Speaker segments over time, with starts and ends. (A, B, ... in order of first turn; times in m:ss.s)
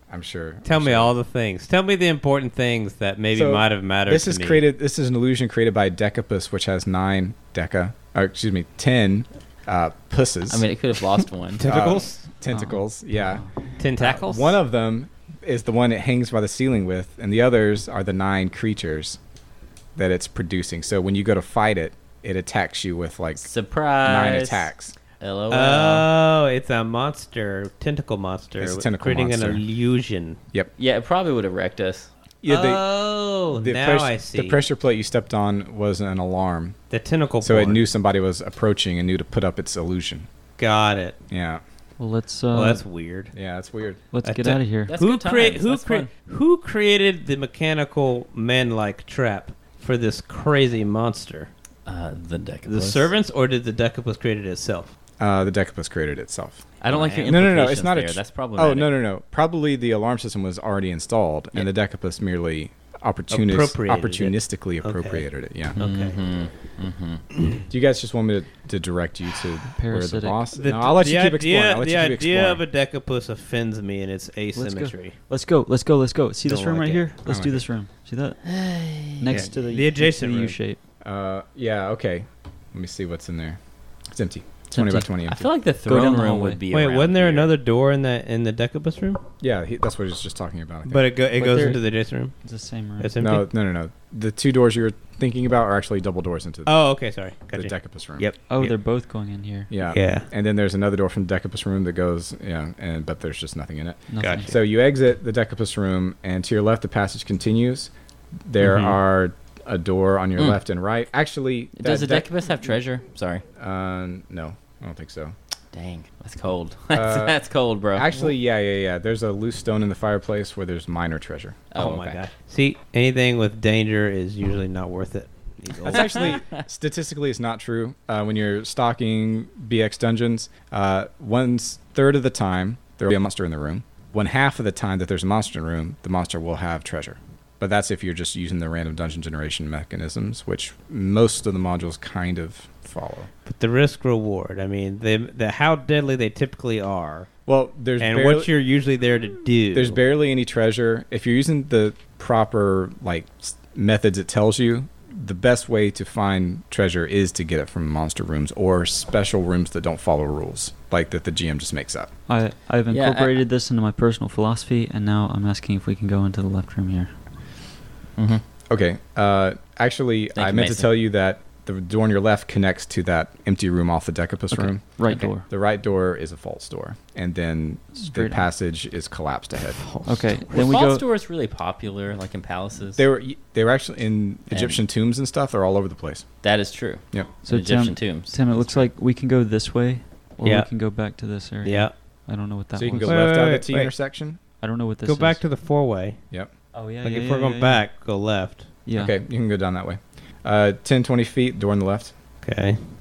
0:00.1-0:01.2 A
0:00.6-0:04.6 B
0:03.3-0:10.6 A
0:10.5-0:11.7 C
0:11.6-0:12.2 B
0:11.6-0:13.4 A
0:12.5-0:13.5 D
0:13.8-0:14.6 B
0:14.0-0:19.2 A
0:20.0-0:23.5 A
0:23.4-0:26.1 C
0:24.0-0:25.0 A
0:25.5-0:30.4 B
0:28.6-0:29.6 A
0:30.8-0:32.1 C
0:32.4-0:32.8 A
0:32.5-0:34.6 B
0:33.5-0:36.8 A
0:36.9-0:37.8 B
0:37.4-0:40.3 A
0:40.6-0:41.2 B
0:41.3-0:41.6 A
0:42.0-0:42.8 D
0:42.5-0:43.3 B
0:43.3-0:44.0 A
0:44.1-0:44.9 D
0:44.2-0:51.5 B
0:44.9-0:46.1 C
0:51.9-0:53.1 C
0:52.7-0:54.9 B
0:55.2-1:05.8 A
0:56.8-0:58.9 C
0:56.9-0:57.4 B
1:03.3-1:06.2 B
1:05.8-1:07.2 C
1:07.7-1:12.6 A
1:09.8-1:10.4 D
1:10.5-1:15.2 B
1:14.6-1:18.4 D
1:16.4-1:17.1 B
1:17.3-1:17.7 A
1:18.5-1:19.5 C
1:19.2-1:20.8 D
1:19.3-1:20.6 B
1:21.0-1:23.6 A
1:24.1-1:25.5 A
1:24.7-1:25.1 D
1:25.3-1:27.5 C
1:25.9-1:26.6 D
1:26.7-1:29.2 B
1:29.4-1:31.1 A
1:30.9-1:32.4 B
1:31.4-1:31.8 D
1:32.4-1:33.1 D
1:33.0-1:33.5 B
1:33.2-1:36.8 A
1:36.7-1:38.7 B
1:37.5-1:38.3 A
1:38.5-1:39.7 D
1:39.7-1:47.9 A
1:39.9-1:40.3 B
1:44.1-1:44.6 D
1:44.2-1:44.5 B
1:48.4-1:52.3 A
1:48.6-1:49.0 B
1:51.8-1:53.4 C
1:53.6-1:55.4 A
1:55.7-1:58.1 C
1:56.9-1:57.4 A
1:57.9-2:01.7 A
2:01.7-2:02.2 C
2:01.8-2:06.4 B
2:05.8-2:23.3 A
2:05.9-2:06.6 C
2:23.4-2:27.3 B
2:27.5-2:28.5 A
2:28.0-2:30.0 B
2:29.7-2:42.1 A
2:42.3-2:47.1 D
2:42.9-2:43.4 C
2:48.2-2:48.4 C
2:48.7-2:59.8 A
2:50.4-2:50.9 C
2:54.5-2:55.5 D
2:58.0-2:58.5 D
2:59.9-3:01.0 D
3:00.4-3:03.0 C
3:03.0-3:06.3 A
3:04.5-3:04.8 C
3:06.4-3:08.4 C
3:07.4-3:13.2 D
3:08.5-3:08.8 A
3:10.4-3:10.7 B
3:11.6-3:11.9 B
3:12.8-3:14.4 A
3:13.0-3:13.9 B
3:14.6-3:15.4 D
3:15.0-3:16.2 B
3:16.7-3:17.8 D
3:17.0-3:18.7 B
3:18.9-3:19.2 D
3:19.0-3:22.1 A
3:22.4-3:22.8 B